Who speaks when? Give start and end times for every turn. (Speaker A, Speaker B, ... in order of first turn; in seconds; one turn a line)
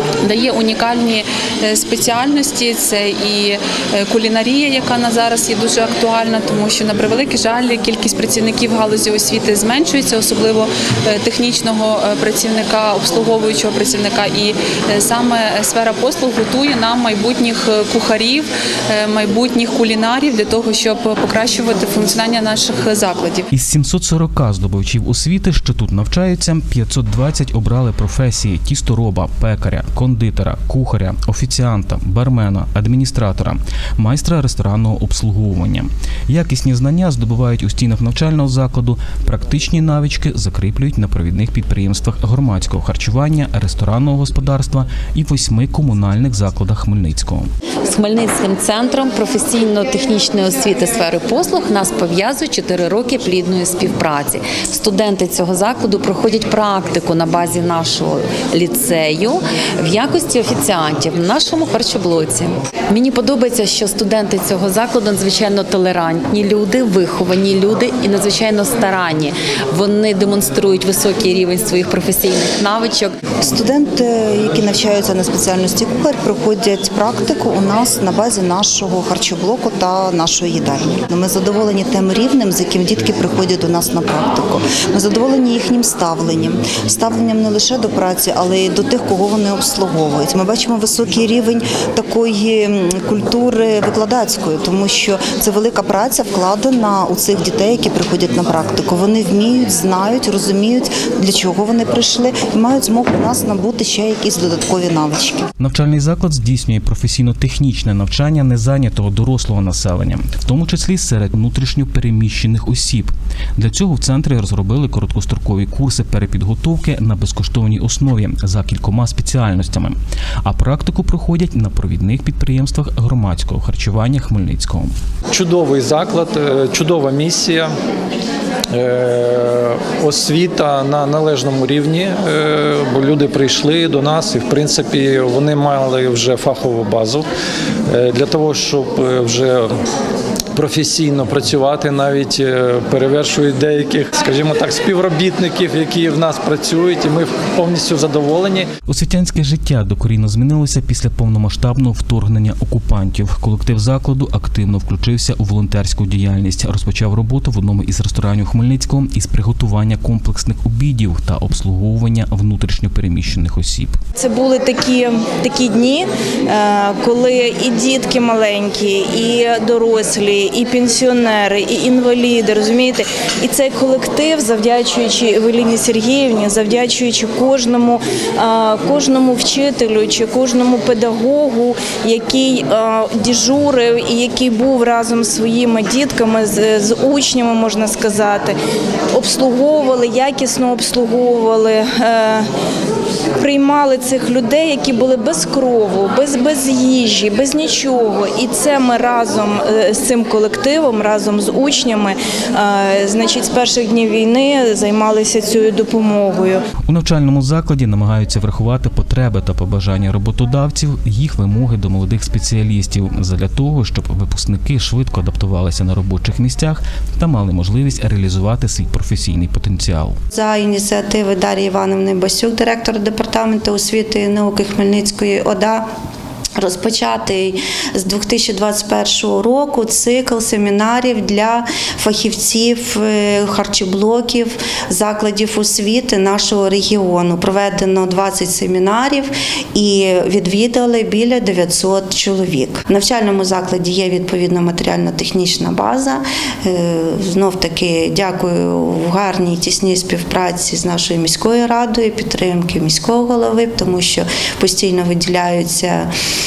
Speaker A: 0.2-23.5
Speaker B: 23.5-47.5
Speaker C: 47.9-73.2
Speaker D: 73.4-105.5
Speaker B: 105.6-124.9
Speaker E: 125.3-127.7
Speaker E: 128.7-137.2
Speaker E: 137.9-139.7
Speaker E: 140.5-148.7
Speaker B: 148.9-164.0
Speaker F: 164.2-188.5
Speaker F: 189.1-192.4
Speaker F: 193.4-206.6
Speaker B: 206.9-220.2
Speaker G: 220.3-225.8
Speaker G: 226.6-256.1